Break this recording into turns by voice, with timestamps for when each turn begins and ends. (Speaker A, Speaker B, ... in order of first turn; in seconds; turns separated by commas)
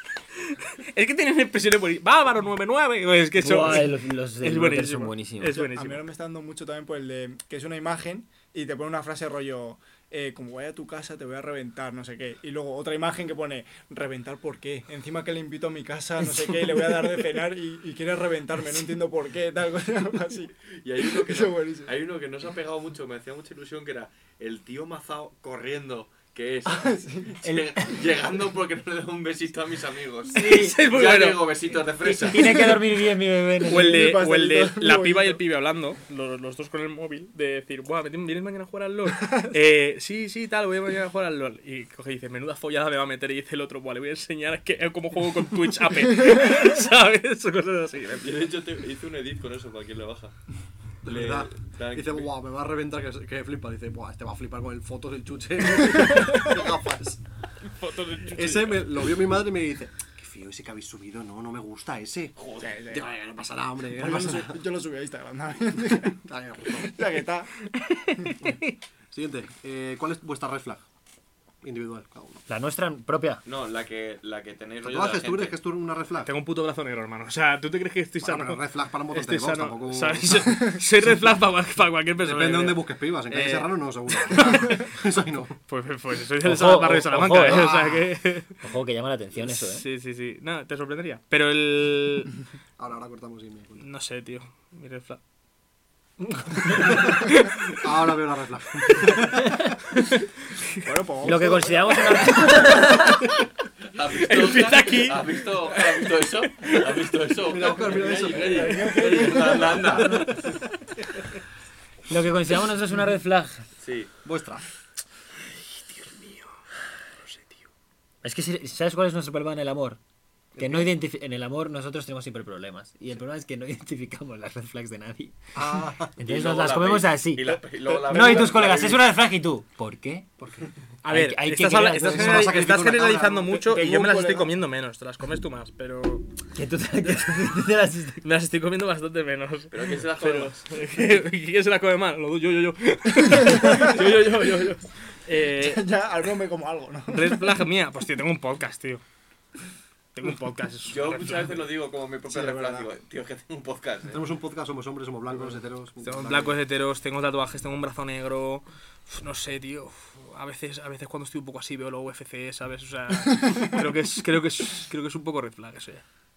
Speaker A: 0.5-6.0, Speaker B: 3.4-5.6, Speaker C: 5.5-21.9, Speaker D: 20.7-32.6, Speaker C: 26.6-27.6, Speaker A: 30.3-31.6, Speaker B: 30.4-30.7, Speaker B: 32.0-34.0, Speaker C: 33.6-35.4, Speaker A: 33.7-48.4, Speaker C: 39.2-39.5, Speaker D: 48.2-50.3, Speaker D: 51.0-52.3, Speaker E: 51.0-57.2, Speaker A: 57.8-58.9, Speaker E: 58.3-64.6, Speaker D: 62.4-62.8, Speaker C: 62.6-63.0, Speaker C: 63.9-66.2, Speaker E: 65.9-67.0, Speaker C: 66.7-67.5, Speaker A: 67.8-68.6, Speaker E: 69.1-70.8, Speaker E: 71.6-72.4, Speaker B: 72.5-73.4, Speaker D: 73.5-75.6, Speaker E: 74.8-76.3, Speaker A: 76.2-84.9, Speaker E: 78.2-80.6, Speaker E: 82.2-85.6, Speaker A: 85.7-88.5, Speaker B: 86.4-87.8, Speaker E: 87.4-88.0, Speaker B: 88.6-89.8, Speaker A: 89.4-92.3, Speaker E: 92.8-93.8, Speaker A: 93.8-95.2, Speaker A: 96.3-97.5, Speaker E: 96.7-99.5, Speaker C: 100.8-102.6, Speaker B: 101.2-103.2, Speaker A: 102.4-103.3, Speaker D: 103.9-110.5, Speaker A: 104.1-107.1, Speaker E: 107.5-110.5, Speaker C: 108.2-110.3, Speaker B: 112.1-113.7, Speaker D: 113.8-114.1, Speaker E: 114.2-114.6, Speaker A: 115.5-116.5, Speaker A: 117.2-117.6, Speaker B: 118.2-120.0, Speaker E: 120.5-120.9, Speaker B: 120.6-125.4, Speaker E: 125.5-126.1, Speaker B: 126.2-130.3, Speaker D: 126.2-129.1, Speaker C: 127.9-128.5, Speaker E: 130.4-130.7, Speaker A: 131.0-136.3, Speaker B: 131.0-132.6, Speaker E: 132.0-133.6, Speaker C: 133.5-134.5, Speaker B: 136.5-138.2, Speaker A: 138.2-145.8, Speaker D: 139.7-140.6, Speaker C: 143.4-144.1, Speaker C: 145.5-147.6, Speaker A: 147.1-149.0, Speaker A: 150.1-151.7, Speaker D: 150.9-154.2, Speaker C: 152.2-152.9, Speaker E: 154.1-156.6, Speaker A: 156.0-166.0